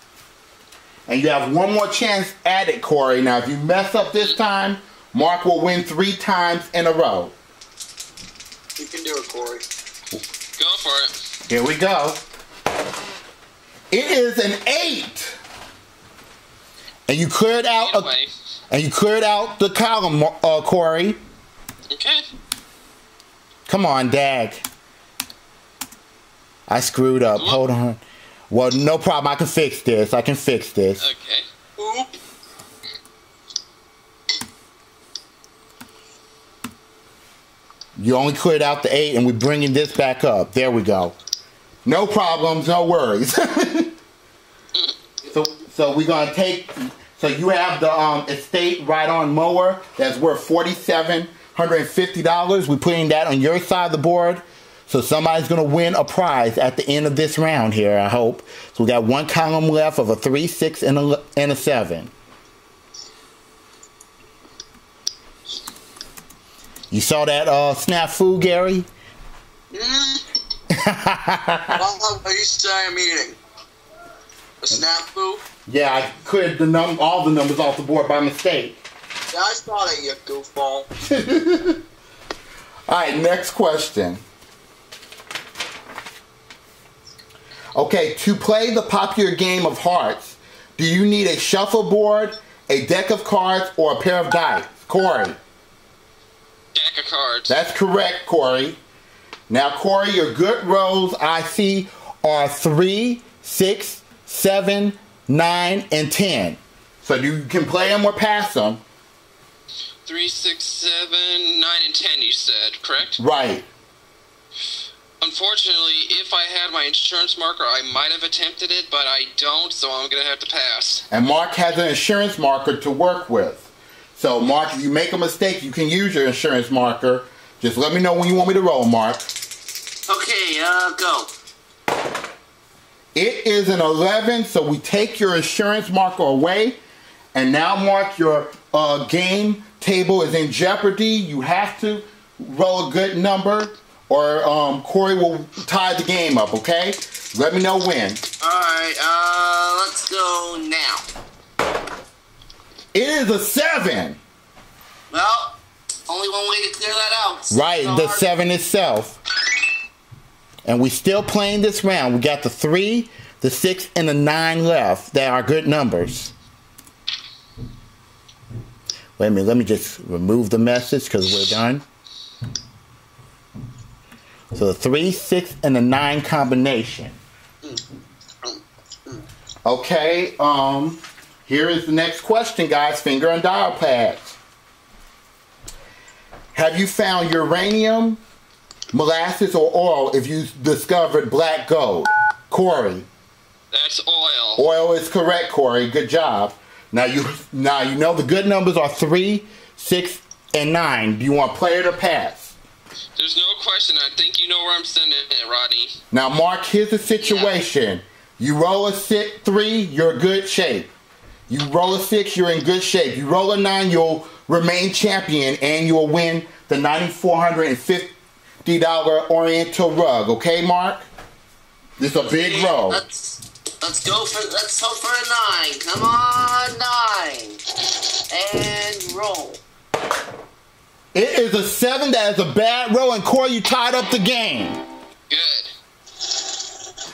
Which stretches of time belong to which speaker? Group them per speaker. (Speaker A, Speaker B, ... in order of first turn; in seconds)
Speaker A: 1.1-7.3, 11.5-12.2, 13.9-15.4, 17.1-18.1, 18.7-21.2, 23.7-24.6, 26.7-31.1, 38.0-41.2, 41.9-43.9, 45.3-62.1, 66.9-68.9, 70.7-71.8, 75.7-78.8, 81.0-81.8, 82.9-84.2, 87.8-95.4, 97.5-98.8, 99.5-108.8, 113.2-113.7, 121.1-129.3, 133.2-136.8, 137.3-148.2, 152.9-154.2, 157.5-159.2, 160.7-166.3, 169.2-171.8, 174.5-177.2, 179.7-184.4, 186.5-188.2, 188.9-193.1, 194.6-202.6, 206.1-210.9, 211.5-218.1, 218.7-221.1, 222.0-223.0, 231.1-234.8
Speaker B: 8.8-9.6, 31.8-32.1, 69.7-70.2, 71.8-73.4, 74.6-75.4, 79.3-80.9, 178.4-179.2
Speaker C: 10.6-11.2, 17.7-18.3, 21.9-22.3, 31.0-31.5, 96.7-97.5, 110.1-113.2, 115.2-121.1, 193.7-194.6, 203.2-206.0, 235.3-235.7
Speaker D: 130.1-131.3, 148.4-151.1, 155.1-158.3, 222.3-229.6